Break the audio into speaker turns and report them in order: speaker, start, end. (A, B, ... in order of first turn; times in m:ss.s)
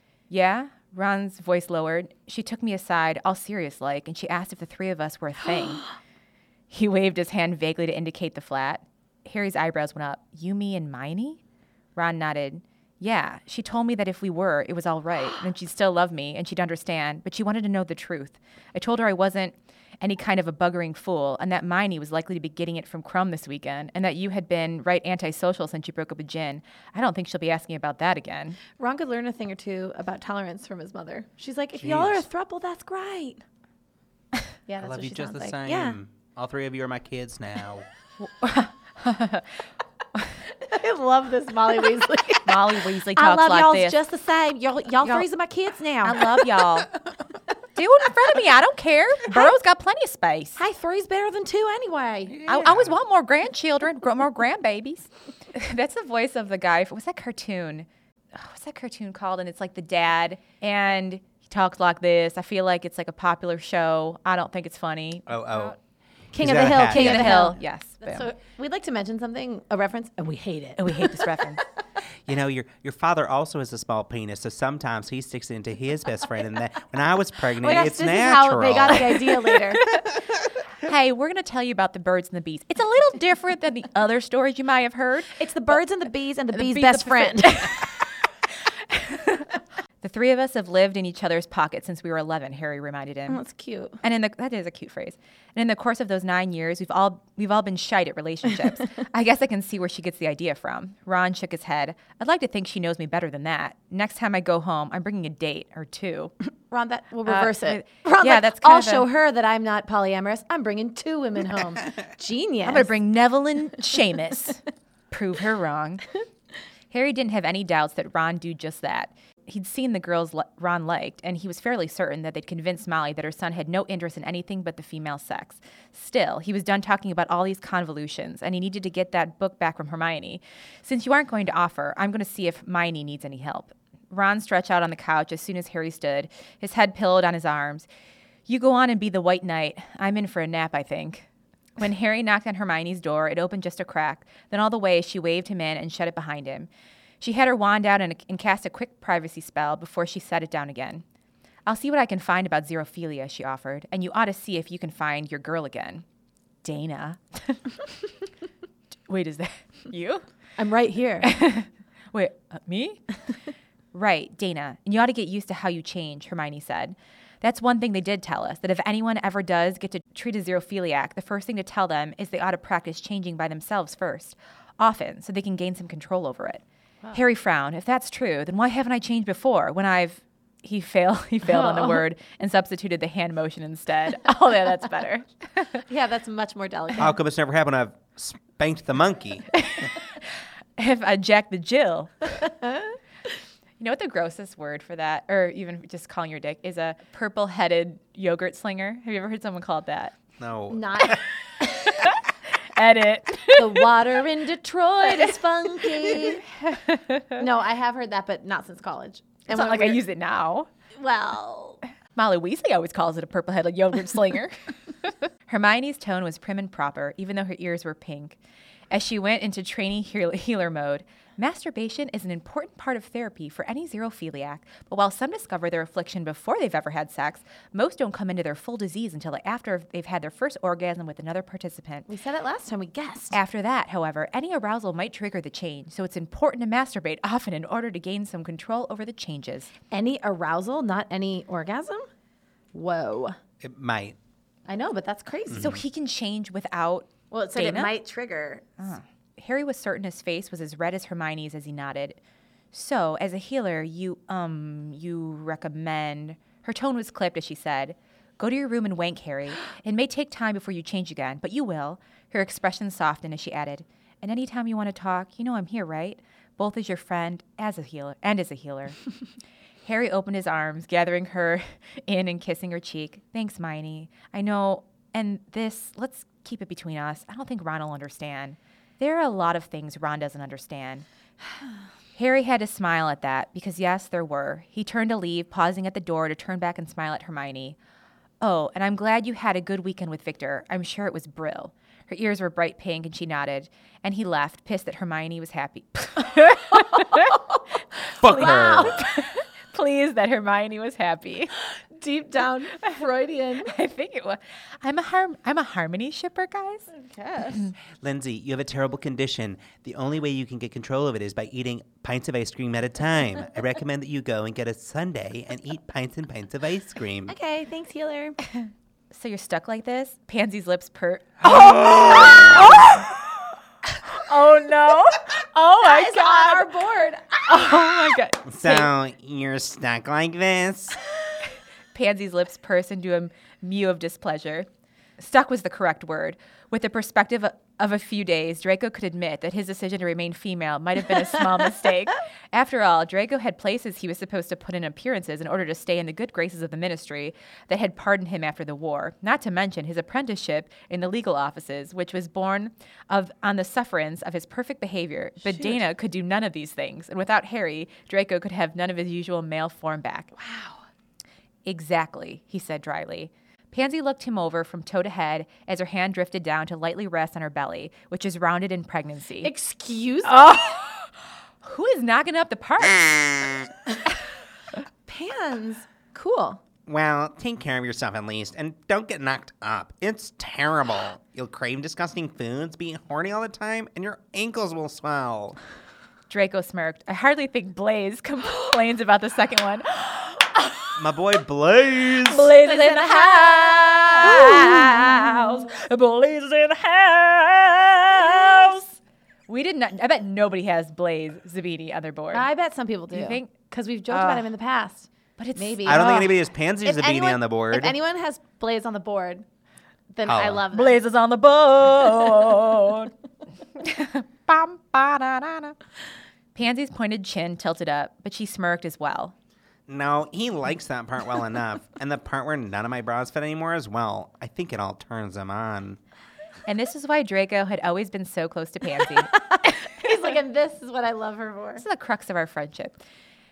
0:00.3-0:05.9 A
0:06.7-0:11.4 A
0:12.0-0:28.6 A
0:28.8-0:33.4 B
0:31.8-0:32.3 C
0:34.7-0:36.0 B
0:34.8-0:37.9 C
0:38.2-0:39.5 A
0:40.6-0:46.5 B
0:42.4-0:44.0 A
0:46.0-0:46.9 A
0:47.8-0:50.6 A
0:50.6-0:52.5 B
0:52.4-0:53.0 C
0:52.5-1:05.8 A
1:05.3-1:05.8 C
1:06.3-1:07.5 C
1:06.3-1:11.5 B
1:06.8-1:08.3 A
1:10.8-1:11.6 A
1:12.2-1:19.2 C
1:17.6-1:19.9 B
1:20.8-1:25.8 A
1:25.4-1:27.8 B
1:26.5-1:28.0 A
1:28.7-1:33.4 A
1:33.3-1:34.0 B
1:34.0-1:46.3 A
1:46.7-1:52.9 B
1:47.2-1:49.1 A
1:52.6-1:56.0 A
1:56.9-2:17.9 A
2:18.5-2:21.3 A
2:21.8-2:26.7 A
2:27.2-2:31.0 A
2:31.6-2:36.0 A
2:36.6-2:37.7 A
2:39.1-2:40.2 A
2:40.6-2:41.3 B
2:41.2-2:43.0 A
2:43.9-3:05.8 A
3:01.5-3:02.0 B
3:05.9-3:07.1 B
3:07.0-3:09.5 C
3:09.5-3:12.4 A
3:13.8-3:20.1 A
3:20.4-3:21.2 C
3:20.7-3:21.2 B
3:21.6-3:23.9 A
3:23.5-3:26.4 B
3:26.6-3:27.4 A
3:27.4-3:30.0 B
3:29.5-3:30.7 A
3:31.0-3:31.8 B
3:32.2-3:38.4 A
3:38.9-3:52.1 A
3:52.1-3:53.4 B
3:53.3-3:59.7 A
3:59.9-4:02.0 B
4:02.7-4:03.4 B
4:03.6-4:04.2 C
4:04.7-4:05.8 B
4:05.5-4:05.8 C
4:05.5-4:07.9 A
4:07.3-4:08.8 B
4:08.8-4:12.2 A
4:12.7-4:29.0 A
4:29.8-4:41.0 A
4:42.2-4:47.8 A
4:48.4-4:57.4 A
4:57.0-4:57.4 B
4:58.2-4:59.0 C
4:58.2-4:59.1 B
4:58.2-5:01.5 A
5:02.0-5:03.7 B
5:03.7-5:06.9 A
5:06.9-5:07.7 B
5:08.0-5:17.3 C
5:17.3-5:18.4 B
5:18.5-5:23.1 A
5:21.5-5:22.8 C
5:24.0-5:26.7 A
5:25.8-5:28.0 B
5:27.5-5:28.9 A
5:28.5-5:31.0 C
5:31.9-5:34.7 A
5:35.2-6:00.3 A
6:00.4-6:00.8 B
6:01.7-6:09.5 A
6:09.4-6:10.6 B
6:10.2-6:13.5 A
6:15.1-6:16.6 B
6:16.9-6:25.6 C
6:26.3-6:31.0 A
6:31.0-6:32.5 C
6:32.2-6:39.0 A
6:32.6-6:35.2 B
6:39.5-6:42.5 A
6:42.3-6:49.4 B
6:43.1-6:43.5 A
6:44.1-6:44.5 A
6:45.4-6:46.3 A
6:45.8-6:48.0 C
6:50.1-6:51.0 B
6:50.2-6:50.6 C
6:50.7-6:53.1 A
6:53.8-6:55.8 A
6:56.5-6:59.3 A
6:59.9-7:06.0 C
7:06.7-7:09.7 A
7:09.5-7:11.8 B
7:11.8-7:13.0 A